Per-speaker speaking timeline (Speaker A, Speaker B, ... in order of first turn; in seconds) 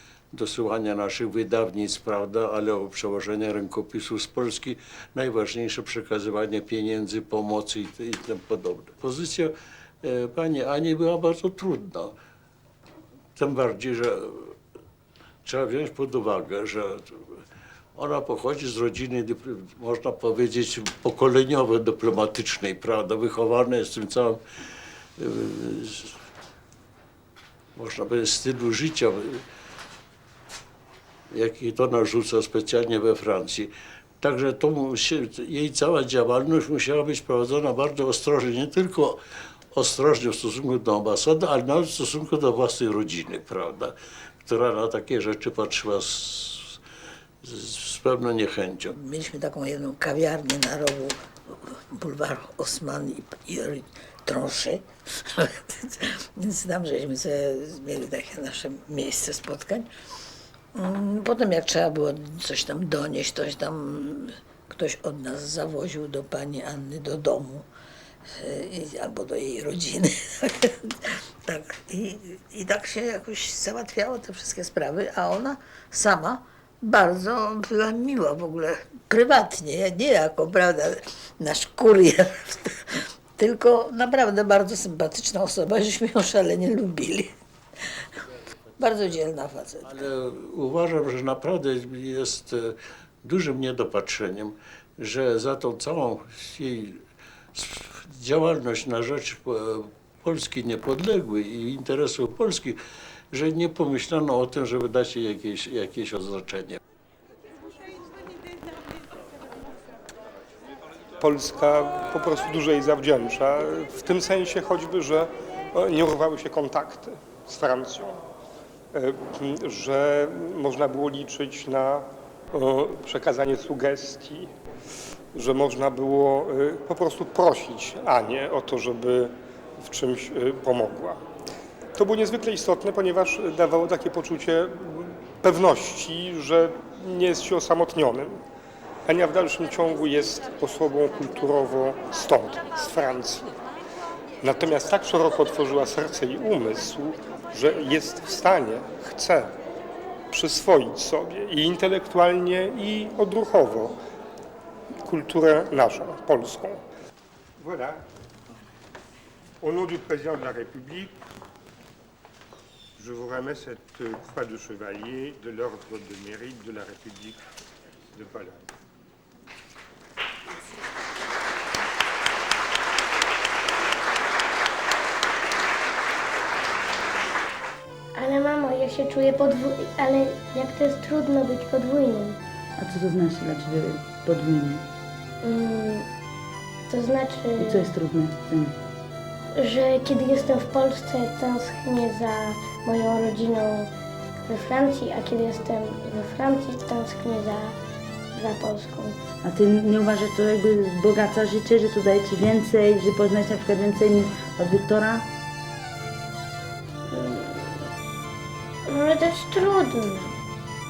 Speaker A: 0.3-12.1, 13.3-14.5, 15.4-17.1, 17.9-24.4, 25.2-26.1, 27.8-29.4, 31.3-39.2, 39.7-43.9, 44.4-46.8, 47.4-49.0, 89.8-97.0, 97.5-102.8, 103.3-106.8
Speaker B: 49.0-51.1, 51.9-54.8, 55.7-59.9, 60.8-67.6, 68.4-70.7, 71.5-82.7, 83.4-87.3, 88.8-89.8
Speaker C: 111.2-118.2, 118.9-124.5, 125.3-131.2, 132.0-138.4, 139.1-143.5, 144.4-149.5, 150.3-153.9, 155.1-156.8, 157.6-158.0, 159.6-161.1, 163.0-167.4, 168.2-168.6
Speaker D: 178.1-182.4, 185.4-186.1, 186.9-187.8, 189.6-193.9, 194.4-197.8, 198.3-199.2, 207.1-207.8, 208.9-210.3
Speaker E: 182.8-184.8, 187.6-188.7, 199.4-205.2